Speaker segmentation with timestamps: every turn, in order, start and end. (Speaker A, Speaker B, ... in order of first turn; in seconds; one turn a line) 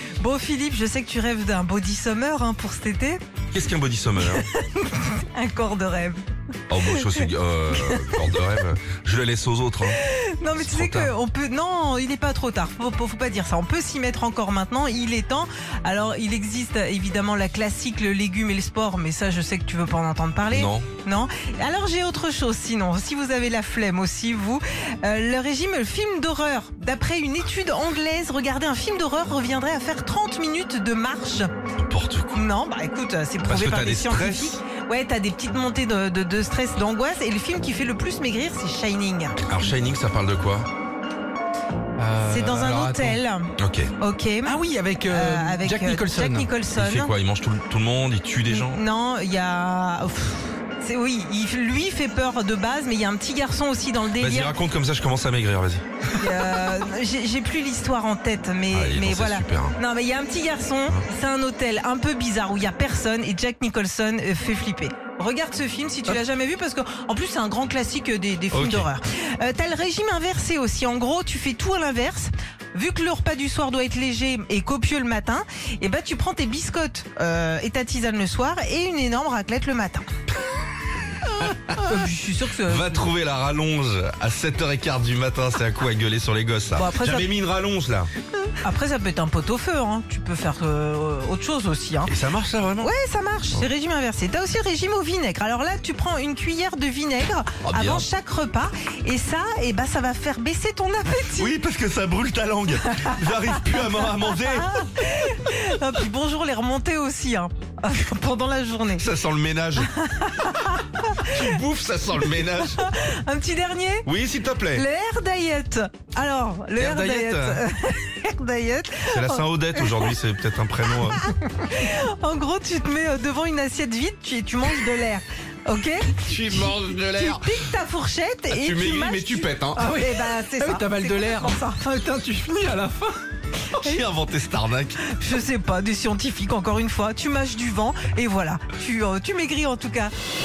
Speaker A: 0.2-3.2
Speaker B: 3.5-4.4
Speaker A: 4.2-6.2
Speaker B: 6.7-10.0
Speaker A: 6.8-8.4
Speaker A: 9.9-31.5
Speaker B: 10.6-11.1
Speaker B: 20.5-20.9
Speaker B: 31.8-32.5
Speaker A: 32.3-39.4
Speaker B: 33.4-34.6
Speaker B: 39.5-40.7
Speaker C: 42.0-43.2
Speaker A: 42.2-47.1
Speaker B: 43.6-43.9
Speaker C: 44.4-46.5
Speaker B: 46.7-48.8
Speaker A: 48.5-54.6
Speaker B: 54.2-55.8
Speaker A: 56.2-80.1
Speaker B: 58.7-59.8
Speaker B: 68.5-68.9
Speaker A: 81.4-83.1
Speaker B: 81.5-82.0
Speaker B: 82.6-88.1
Speaker A: 86.7-87.3
Speaker A: 88.6-92.1
Speaker B: 92.0-92.9
Speaker A: 92.8-101.5
Speaker B: 97.6-98.1
Speaker B: 101.4-104.9
Speaker A: 104.0-109.0
Speaker B: 109.0-109.9
Speaker A: 110.0-111.2
Speaker B: 111.2-112.8
Speaker A: 112.7-114.1
Speaker B: 114.0-114.8
Speaker A: 114.7-120.1
Speaker B: 116.8-117.6
Speaker B: 119.0-121.3
Speaker A: 121.1-131.8
Speaker B: 126.2-127.5
Speaker B: 128.5-129.8
Speaker C: 129.8-133.1
Speaker B: 133.8-135.0
Speaker A: 135.0-140.1